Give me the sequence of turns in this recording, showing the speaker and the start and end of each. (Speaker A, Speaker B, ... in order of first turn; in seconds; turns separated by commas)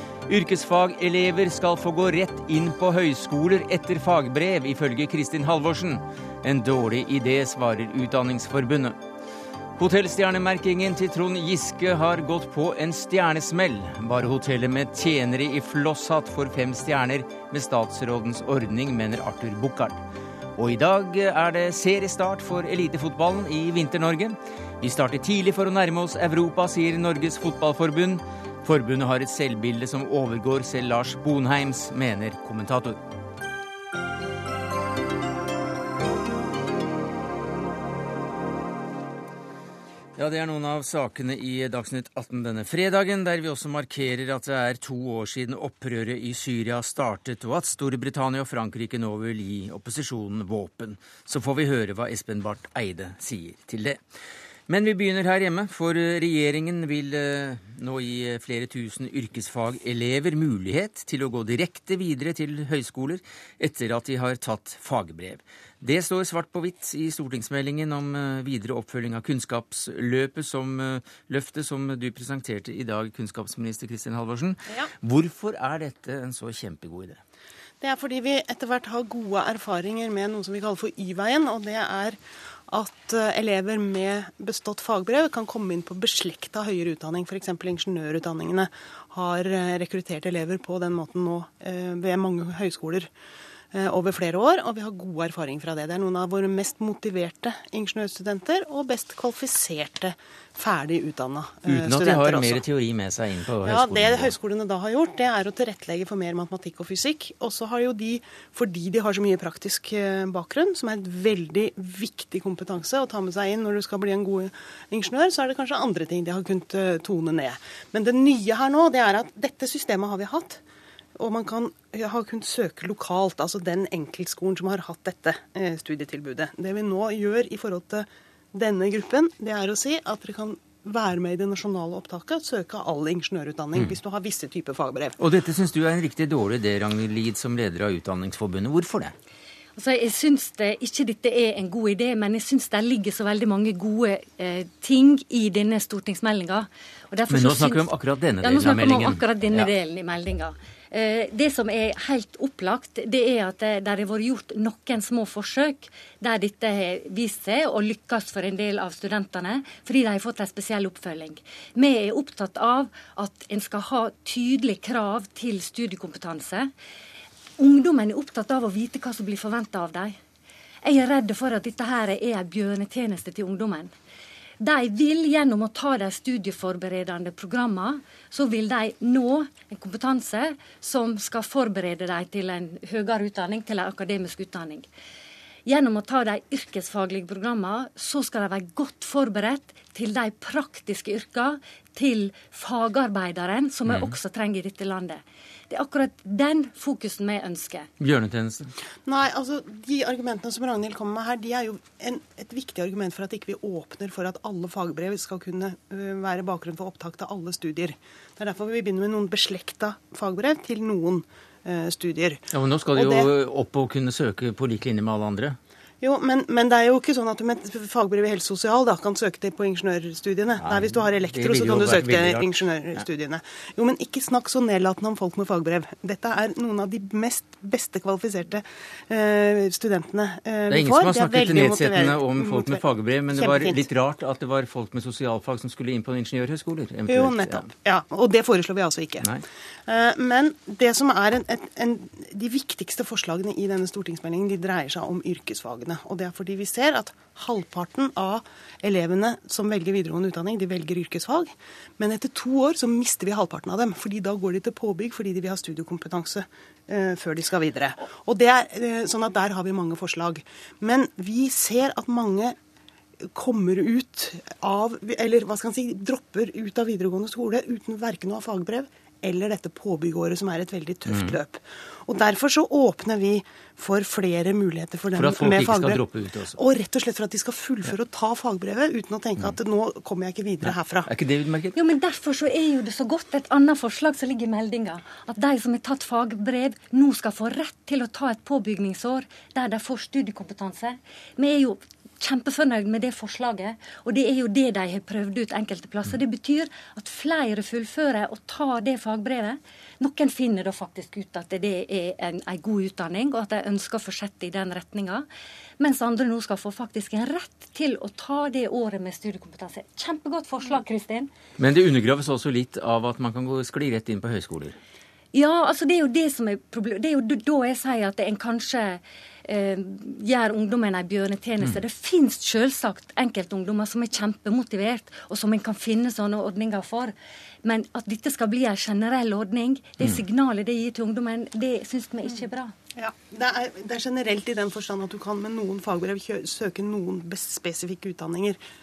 Speaker A: 0.3-9.0, Speaker A: 9.8-20.0, Speaker A: 20.6-33.0, Speaker A: 40.2-54.0, Speaker A: 54.7-77.2, Speaker B: 77.8-93.1, Speaker B: 93.7-102.6, Speaker A: 101.7-104.3, Speaker B: 103.6-120.6, Speaker B: 121.2-135.2, Speaker A: 135.2-139.1, Speaker C: 139.8-166.7, Speaker A: 147.3-149.7, Speaker C: 167.6-170.2, Speaker C: 170.8-173.9, Speaker C: 174.6-184.9, Speaker C: 185.7-197.9, Speaker A: 193.9-194.2, Speaker A: 198.0-198.7, Speaker B: 199.0-213.3, Speaker A: 212.5-215.6, Speaker B: 216.0-233.8, Speaker A: 220.6-223.0, Speaker A: 230.7-237.7, Speaker B: 237.1-239.3, Speaker B: 239.8-262.6, Speaker B: 263.2-276.0, Speaker A: 271.1-271.4, Speaker A: 275.1-276.6, Speaker B: 276.5-281.1, Speaker A: 280.6-281.8, Speaker C: 281.7-305.3, Speaker C: 305.8-311.3, Speaker A: 311.6-314.8, Speaker C: 315.3-332.7, Speaker B: 332.9-338.6